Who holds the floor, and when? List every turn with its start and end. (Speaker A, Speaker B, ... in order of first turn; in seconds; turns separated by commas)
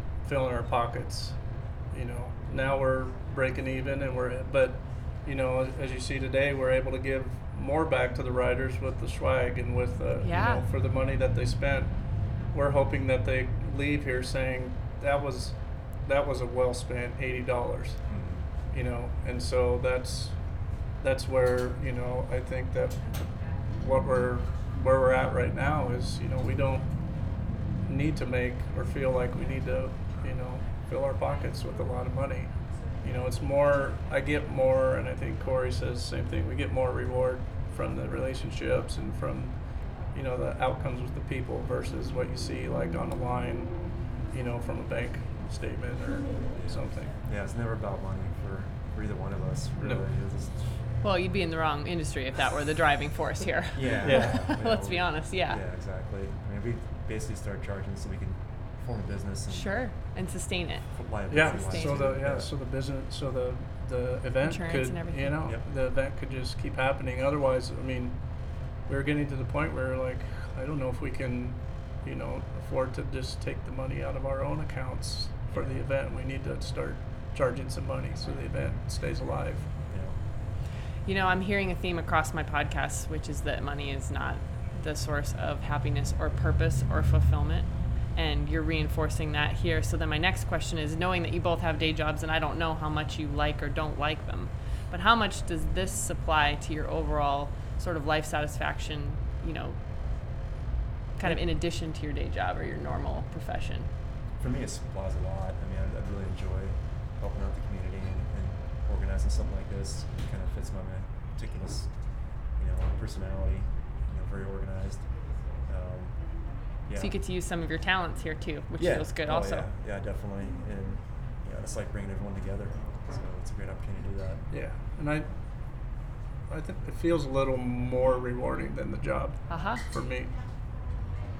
Speaker A: 0.2-18.1, Speaker B: 10.2-10.7, Speaker C: 18.1-18.5, Speaker A: 18.6-47.1, Speaker C: 46.5-50.8, Speaker A: 49.8-50.0, Speaker B: 51.0-55.6, Speaker C: 53.7-59.8, Speaker A: 54.0-54.4, Speaker B: 59.5-62.2, Speaker C: 60.9-62.5, Speaker A: 61.3-79.8, Speaker B: 64.4-65.4, Speaker C: 75.5-75.8, Speaker C: 79.9-80.2, Speaker B: 81.0-99.8, Speaker B: 101.2-103.9, Speaker C: 104.4-117.2, Speaker B: 117.0-119.7, Speaker C: 118.8-124.7, Speaker A: 124.5-125.3, Speaker A: 126.5-130.9, Speaker B: 129.5-129.8